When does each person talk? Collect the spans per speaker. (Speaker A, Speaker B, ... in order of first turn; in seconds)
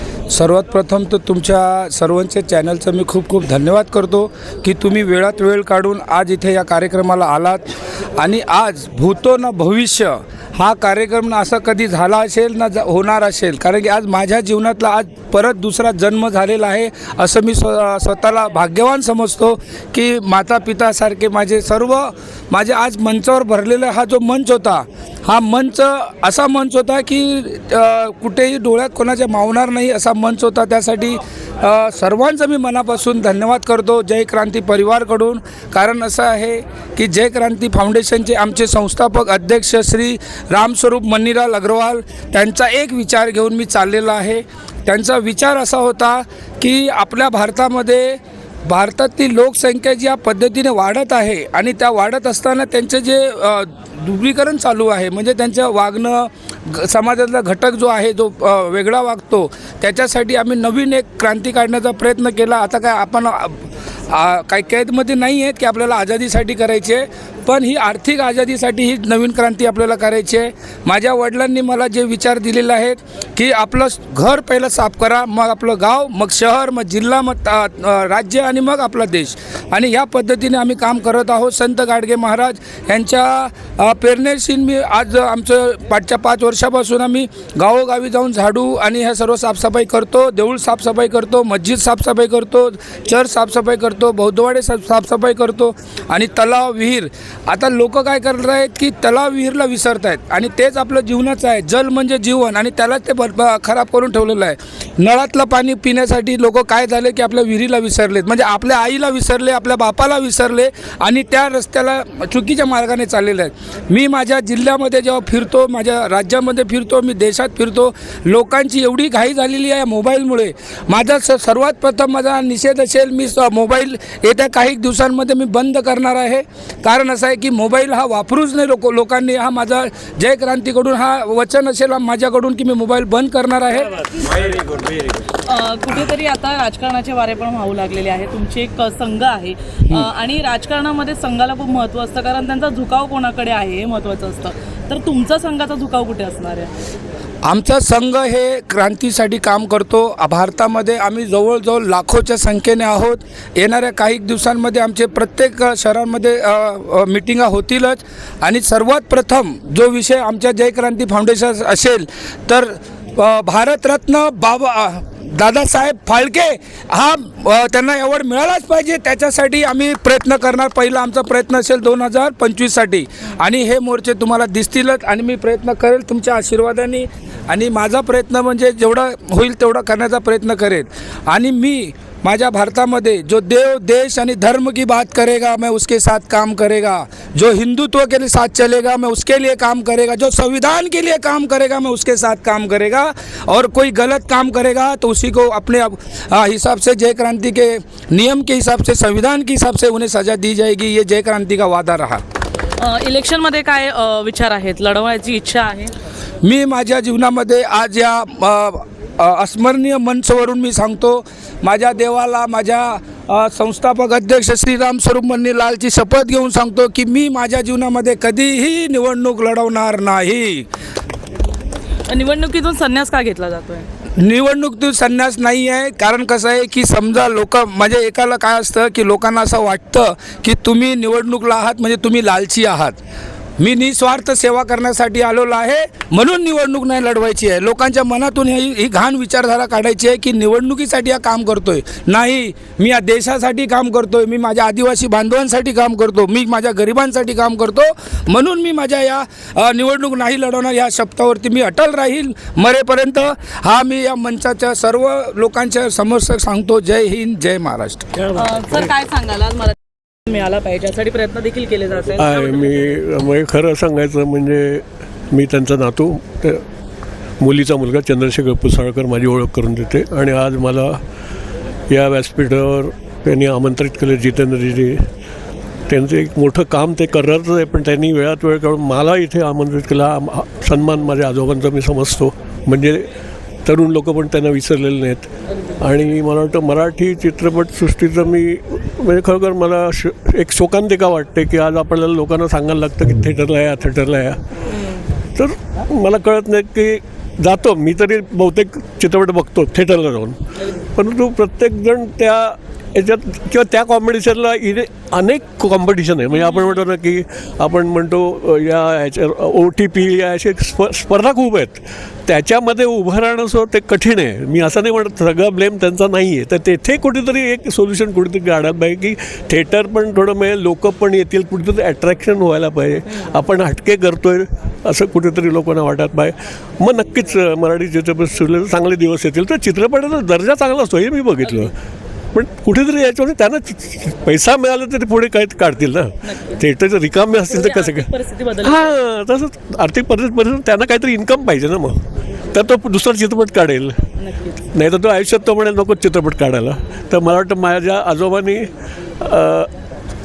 Speaker A: 0.3-134.1, 147.4-202.2, 206.4-220.7, 224.2-233.0, 233.6-258.1
Speaker B: 135.4-146.7, 202.8-205.9, 222.1-223.8, 258.3-262.9, 331.4-331.7, 336.2-336.6, 337.4-339.0, 344.2-344.6
Speaker C: 262.2-266.6, 267.4-271.0, 271.9-275.0, 275.9-283.1, 283.6-294.4, 295.3-300.4, 300.9-331.7, 332.3-338.1, 338.6-344.0, 344.7-348.7, 349.2-349.7